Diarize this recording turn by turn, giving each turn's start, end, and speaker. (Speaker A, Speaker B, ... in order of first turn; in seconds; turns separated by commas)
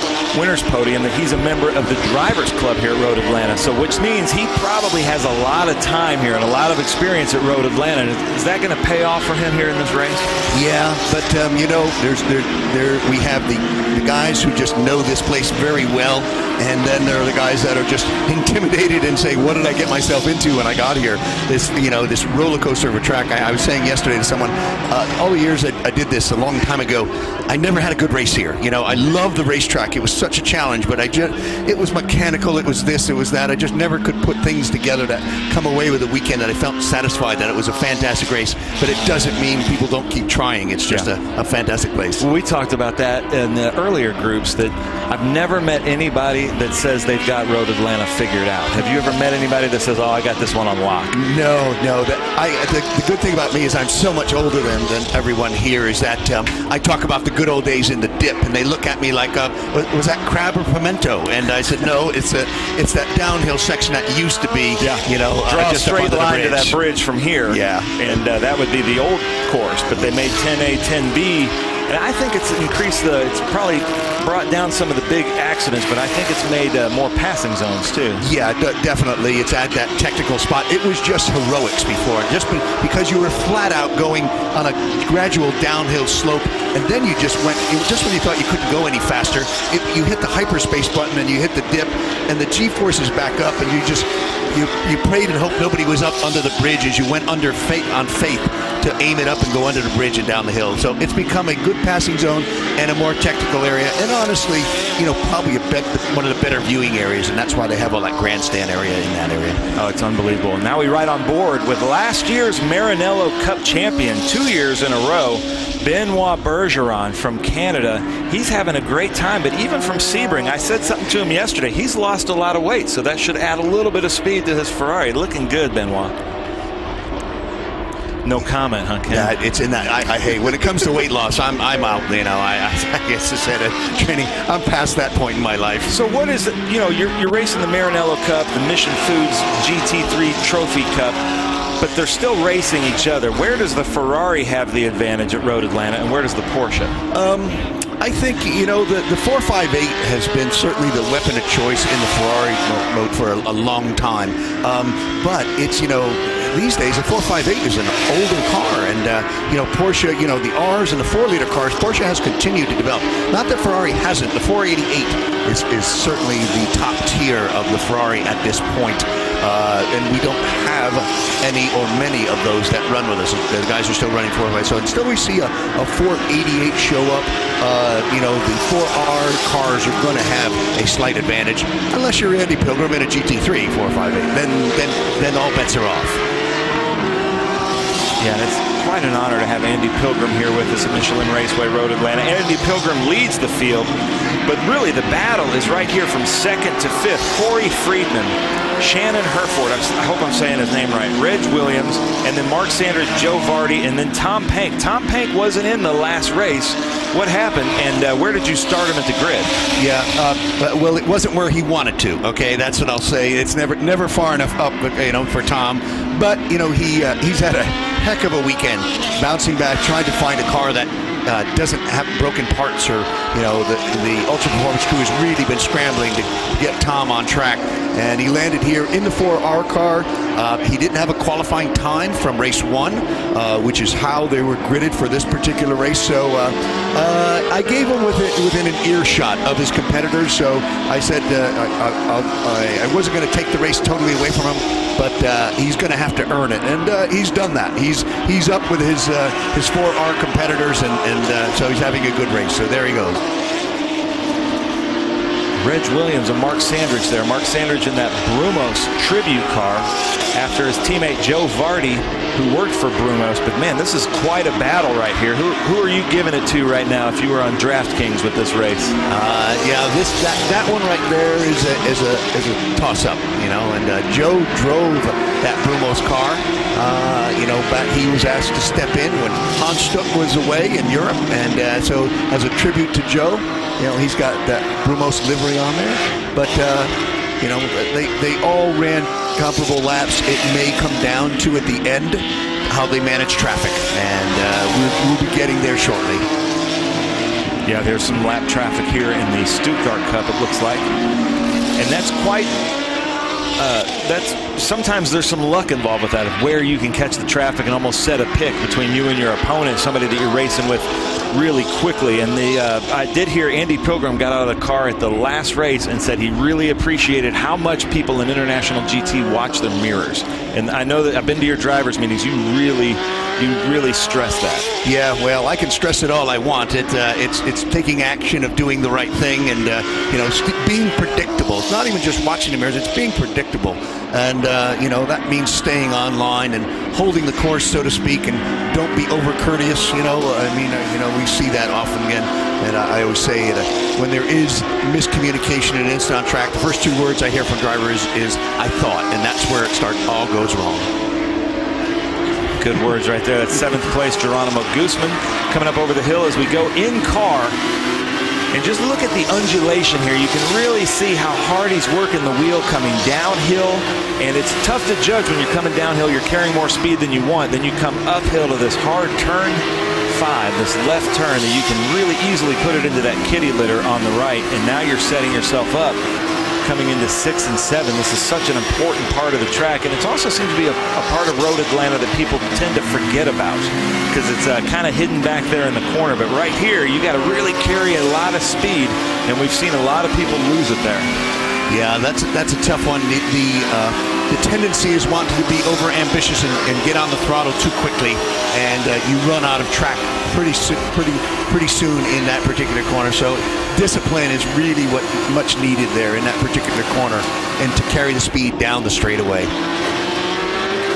Speaker A: 0.3-10.3, Speaker B: 10.5-42.2, Speaker A: 42.2-51.1, Speaker B: 51.1-66.8, Speaker A: 64.8-78.2, Speaker B: 67.5-68.2, Speaker B: 78.2-109.6, Speaker A: 109.7-126.2, Speaker A: 128.2-129.3, Speaker B: 129.1-135.9, Speaker A: 135.9-141.2, Speaker A: 141.8-147.0, Speaker B: 147.1-186.2, Speaker A: 188.2-193.9, Speaker A: 194.5-209.5, Speaker B: 209.8-253.2, Speaker A: 255.6-269.0, Speaker B: 269.1-296.3, Speaker A: 297.7-300.9, Speaker A: 301.8-302.5, Speaker A: 303.6-324.7, Speaker B: 324.8-350.9, Speaker A: 352.6-357.6, Speaker A: 358.5-376.0, Speaker A: 376.6-391.1, Speaker B: 391.7-409.5